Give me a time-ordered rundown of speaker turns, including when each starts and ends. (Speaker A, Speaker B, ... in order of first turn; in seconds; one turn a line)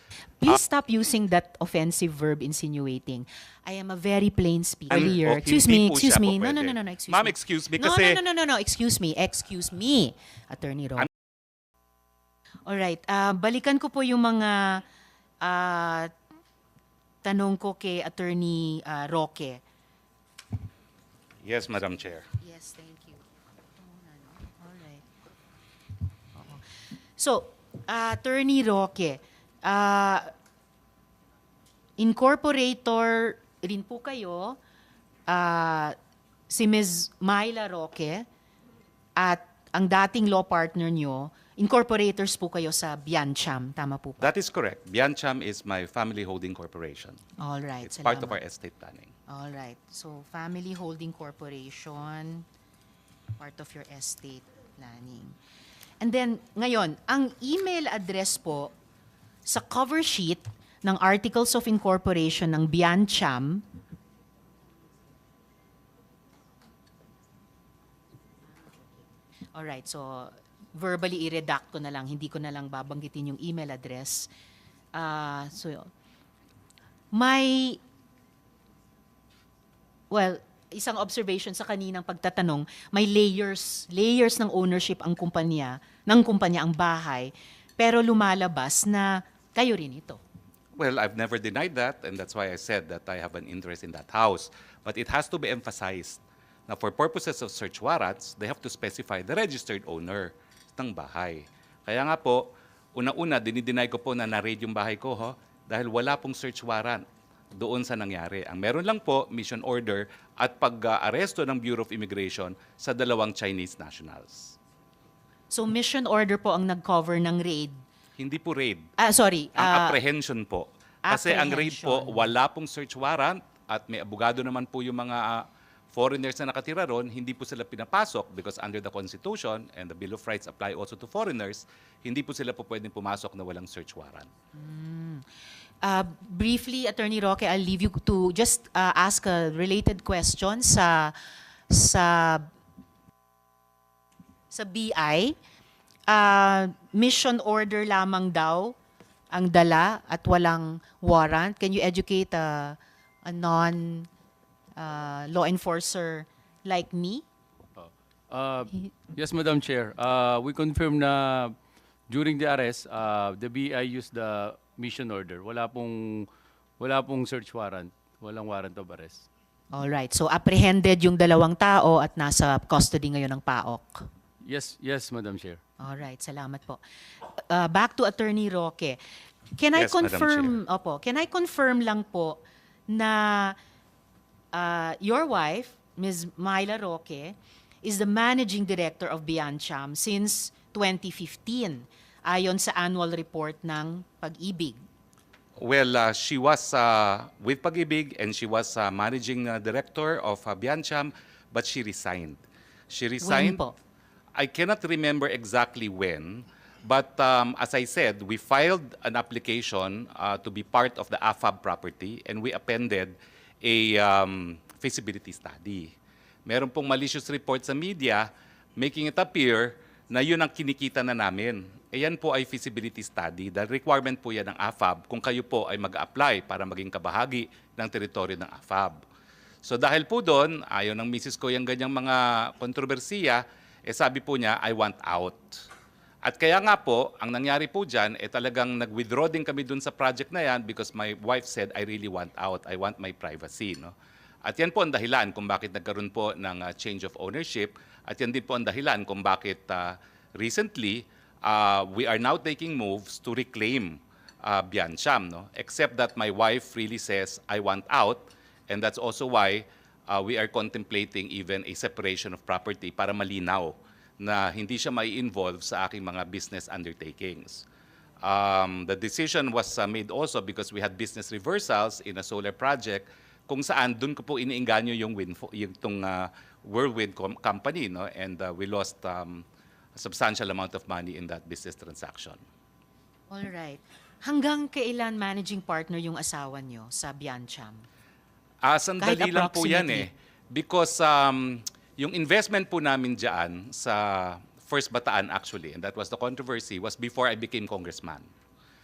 Speaker A: 0.4-11.1
Speaker B: 4.9-8.2
Speaker A: 12.7-14.8
Speaker A: 15.4-16.1
Speaker A: 17.2-19.6
Speaker B: 21.4-22.3
Speaker A: 22.4-23.2
Speaker A: 23.8-25.1
Speaker A: 26.4-30.3
Speaker A: 32.0-34.6
Speaker A: 35.3-36.0
Speaker A: 36.5-38.3
Speaker A: 39.2-44.3
Speaker B: 44.2-47.2
Speaker A: 47.4-48.4
Speaker B: 47.8-49.1
Speaker A: 49.3-52.5
Speaker A: 53.4-55.4
Speaker A: 56.0-58.7
Speaker A: 59.5-63.6
Speaker A: 69.5-74.3
Speaker A: 74.9-75.9
Speaker A: 77.1-77.8
Speaker A: 80.1-90.2
Speaker B: 90.8-107.0
Speaker B: 107.6-114.6
Speaker A: 115.5-117.8
Speaker B: 118.2-118.9
Speaker A: 119.0-120.0
Speaker B: 119.6-134.3
Speaker A: 121.0-122.3
Speaker A: 134.5-135.2
Speaker A: 135.8-141.2
Speaker A: 141.7-142.5
Speaker A: 144.5-145.3
Speaker A: 146.1-148.7
Speaker A: 149.3-154.1
Speaker A: 154.8-157.2
Speaker C: 157.8-161.6
Speaker C: 162.1-166.3
Speaker C: 166.8-169.3
Speaker A: 169.7-174.1
Speaker C: 174.4-175.6
Speaker A: 175.8-176.8
Speaker A: 177.4-179.0
Speaker A: 179.6-183.6
Speaker B: 179.7-180.5
Speaker A: 184.5-194.8
Speaker B: 195.6-203.6
Speaker A: 203.2-203.7
Speaker B: 204.3-215.9
Speaker B: 216.4-229.0
Speaker B: 229.6-235.4
Speaker B: 236.2-243.9
Speaker B: 244.4-267.6
Speaker B: 268.2-279.4
Speaker B: 279.9-282.4
Speaker A: 283.3-287.8
Speaker B: 288.6-298.3
Speaker A: 289.0-290.1